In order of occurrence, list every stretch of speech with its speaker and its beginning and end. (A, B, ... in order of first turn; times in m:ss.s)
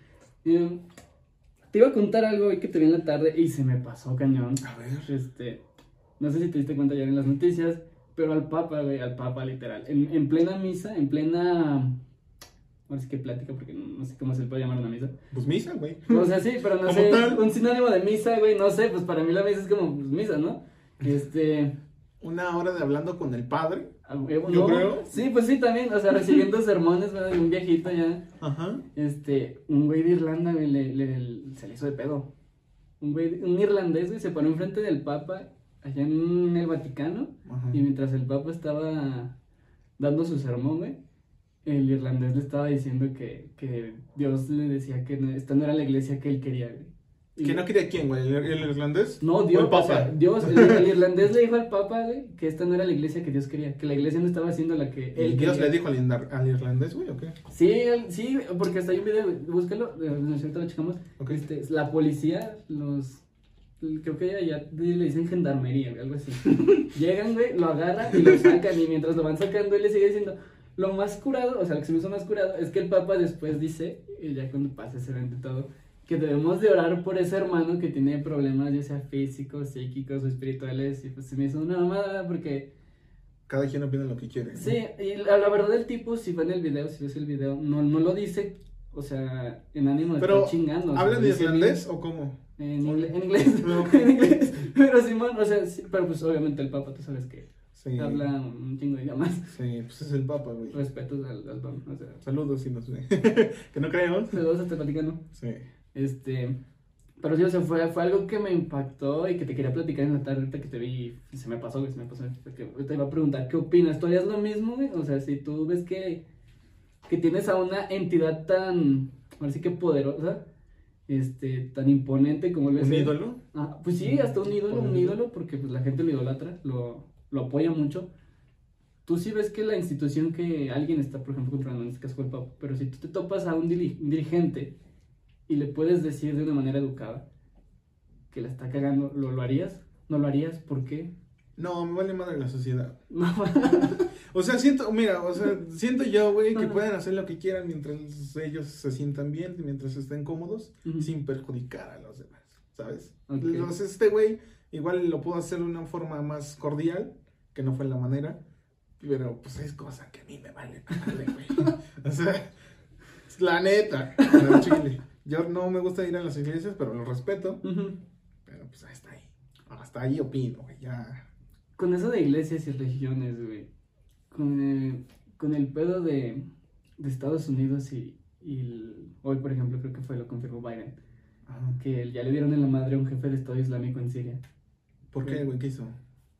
0:00.4-0:00.8 A
0:01.7-0:05.6 A
0:04.6-0:05.1 B
0:06.2-0:12.0 A
0:12.9-0:15.1 A
0:15.3-0:17.4 B
0:16.1-0:21.8 A
0:22.2-0:23.9 B
0:24.0-0:28.2 A
0:24.5-0:25.2 B
0:28.4-0:28.8 B
0:28.9-0:32.3 A
0:33.0-0:39.4 A
0:37.4-0:37.8 B
0:40.0-0:41.0 A
0:41.6-0:47.6 A
0:47.4-0:50.9 B
0:49.2-0:55.8 A
0:55.1-0:57.4 B
0:57.5-1:03.2 A
1:03.8-1:22.7 A
1:23.5-1:24.8 B
1:24.5-1:31.8 A
1:30.2-1:34.7 B
1:32.6-1:39.6 A
1:37.7-1:38.2 B
1:39.5-1:40.8 B
1:40.7-1:42.2 A
1:42.2-1:44.4 B
1:44.3-1:45.2 A
1:45.3-1:45.6 B
1:45.9-1:46.6 A
1:47.2-1:56.2 A
1:57.0-2:00.4 A
2:01.1-2:08.1 A
2:02.8-2:03.4 B
2:04.0-2:05.2 B
2:09.0-2:14.7 A
2:15.5-2:17.2 A
2:18.3-2:21.1 A
2:21.6-2:23.0 B
2:23.1-2:24.1 A
2:23.6-2:38.4 B
2:26.5-2:26.8 A
2:30.8-2:31.1 A
2:33.3-2:33.7 A
2:39.0-2:42.5 B
2:43.3-2:47.6 B
2:44.2-2:44.8 A
2:47.6-2:48.0 A
2:48.4-2:51.2 B
2:51.8-2:53.7 A
2:54.3-2:56.5 A
2:57.0-3:01.0 A
3:01.5-3:01.8 B
3:01.7-3:04.4 A
3:05.1-3:06.0 B